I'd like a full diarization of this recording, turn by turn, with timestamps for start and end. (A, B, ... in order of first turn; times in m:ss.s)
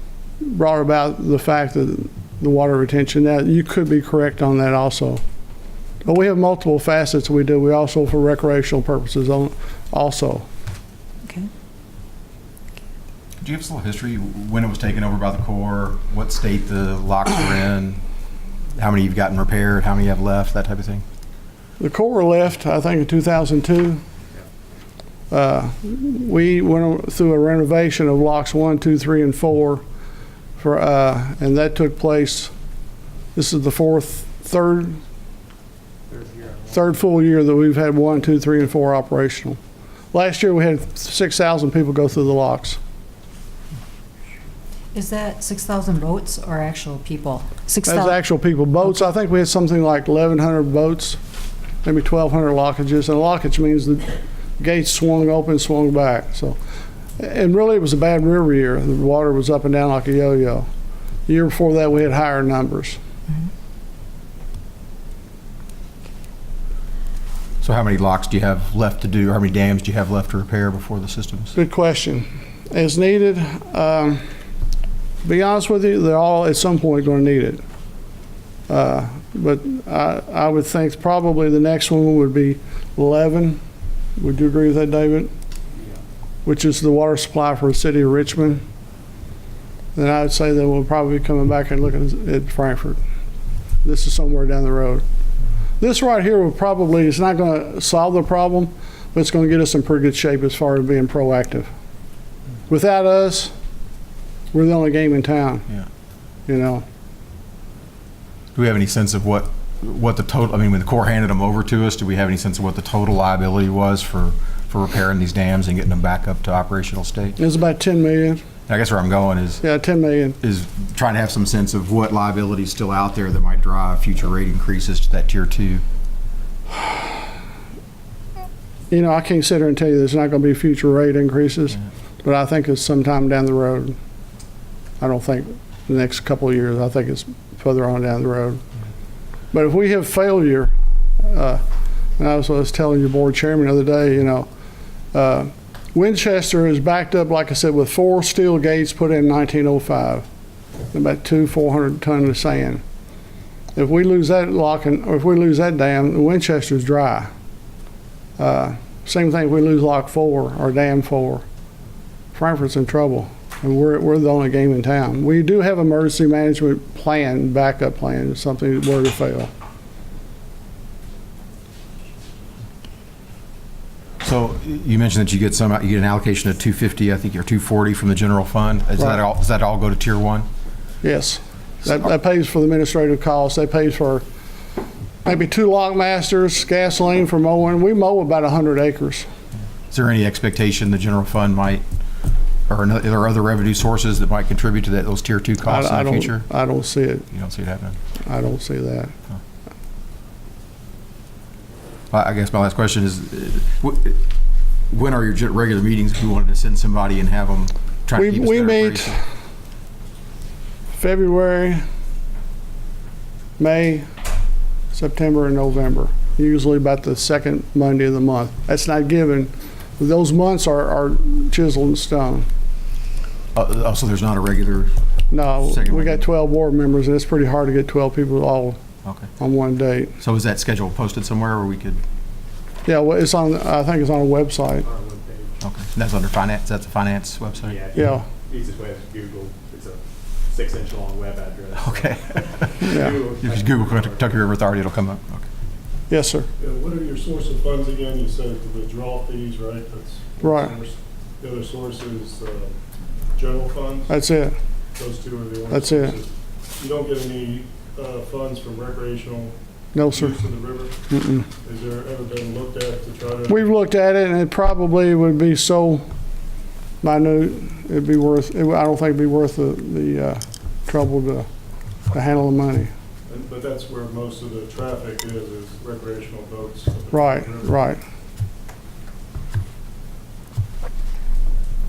0:00.4-0:05.2 A
0:06.0-0:10.5 A
0:13.4-0:18.0 B
0:18.8-0:21.0 B
0:21.8-0:24.0 A
0:25.3-0:29.8 A
0:30.6-0:32.5 A
0:33.4-0:35.0 A
0:36.1-0:36.8 C
0:36.7-0:39.6 A
0:40.1-0:42.8 A
0:44.9-0:48.2 D
0:47.9-0:51.2 A
0:51.8-0:56.6 A
0:57.2-1:00.7 A
1:01.3-1:03.0 A
1:07.6-1:11.5 B
1:11.6-1:14.2 A
1:15.2-1:17.6 A
1:18.7-1:23.6 A
1:24.2-1:25.3 A
1:26.4-1:28.6 A
1:30.0-1:33.0 A
1:33.8-1:35.0 A
1:35.8-1:41.7 A
1:42.7-1:43.5 A
1:44.5-1:45.7 A
1:46.5-1:46.8 A
1:48.6-1:57.4 B
1:57.4-1:58.4 A
1:58.7-1:59.6 B
1:59.6-2:00.4 A
2:00.4-2:05.8 B
2:08.9-2:14.0 A
2:15.0-2:18.6 A
2:19.5-2:21.6 A
2:22.2-2:24.5 A
2:25.1-2:30.2 A
2:30.9-2:32.8 A
2:33.8-2:37.3 A
2:38.4-2:41.4 A
2:42.3-2:49.5 A
2:54.2-3:00.5 B
3:01.0-3:04.2 A
3:05.2-3:09.3 A
3:09.9-3:11.8 B
3:12.7-3:16.5 B
3:15.6-3:17.3 A
3:17.3-3:18.0 B
3:18.3-3:19.1 A
3:22.1-3:24.2 B
3:24.9-3:29.2 B
3:28.1-3:29.2 A
3:31.0-3:31.8 A
3:33.6-3:34.1 A
3:34.9-3:42.5 A
3:43.6-3:44.9 B
3:45.3-3:48.8 A
3:45.6-3:46.2 B
3:49.0-3:49.3 B
3:49.4-3:50.2 A
3:50.2-3:52.0 B
3:52.8-3:54.9 A
3:54.8-3:55.6 C
3:55.6-3:57.8 B
3:57.6-4:04.4 C
3:57.9-3:58.2 A
4:01.8-4:05.5 B
4:02.9-4:03.1 A
4:06.1-4:06.5 A
4:06.6-4:12.7 E
4:10.4-4:10.7 A
4:13.4-4:14.2 E
4:14.1-4:14.6 A
4:15.0-4:21.0 E
4:15.7-4:16.1 A
4:20.0-4:20.3 A
4:21.1-4:21.4 A
4:21.6-4:23.7 E
4:23.5-4:26.0 A
4:27.0-4:31.5 A
4:32.1-4:32.9 A
4:33.3-4:37.9 E
4:37.1-4:38.0 A